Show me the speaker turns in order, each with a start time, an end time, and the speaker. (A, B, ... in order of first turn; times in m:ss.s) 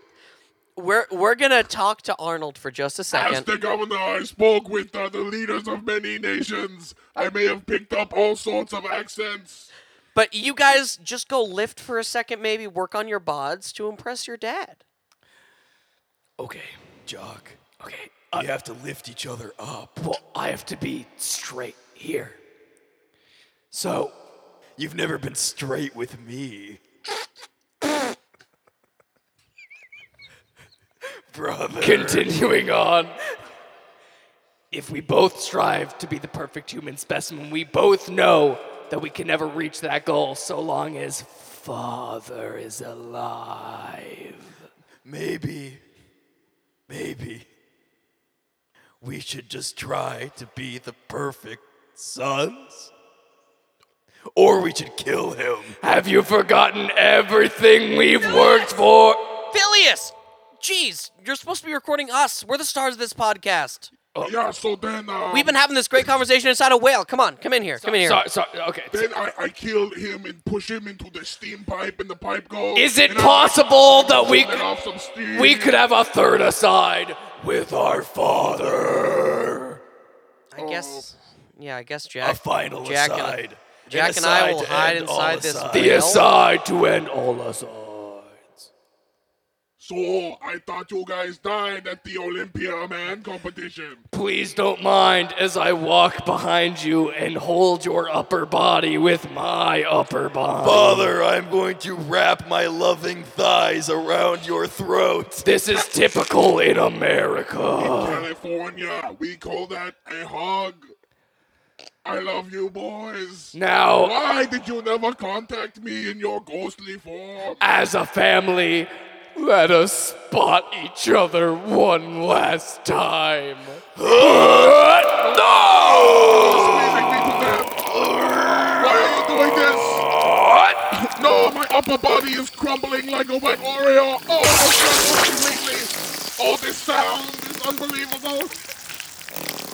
0:00.8-0:03.5 A
0:03.1-0:09.7 B
0:10.1-0:14.8 A
0:16.4-0:16.8 C
0:17.0-0:17.6 D
0:17.8-0:18.5 C
0:18.3-0:20.0 D
0:20.0-0:22.4 C
0:23.7-0:24.1 C
0:24.8-0:26.8 D
0:31.3-0:32.6 D
0:31.8-0:33.2 C
0:34.7-0:44.6 C
0:45.0-0:45.8 D
0:46.9-0:47.4 D
0:49.0-0:52.9 D
0:54.3-0:55.8 D
0:55.8-0:59.2 C
0:59.5-1:03.9 A
1:04.2-1:05.5 B
1:05.3-1:08.2 A
1:07.8-1:09.1 C
1:08.9-1:15.8 B
1:12.7-1:14.7 C
1:15.3-1:19.7 C
1:17.7-1:19.6 D
1:20.5-1:26.2 A
1:20.6-1:21.1 B
1:22.2-1:26.2 D
1:25.7-1:28.6 C
1:29.8-1:34.0 B
1:34.1-1:41.1 C
1:40.6-1:45.5 D
1:45.4-1:48.2 C
1:47.7-1:50.9 B
1:52.0-1:57.6 B
1:53.5-1:54.2 C
1:57.6-2:07.0 C
2:04.0-2:04.9 D
2:05.2-2:07.9 B
2:06.0-2:06.8 D
2:07.9-2:09.1 D
2:08.8-2:10.1 B
2:10.3-2:10.8 C
2:11.0-2:18.5 B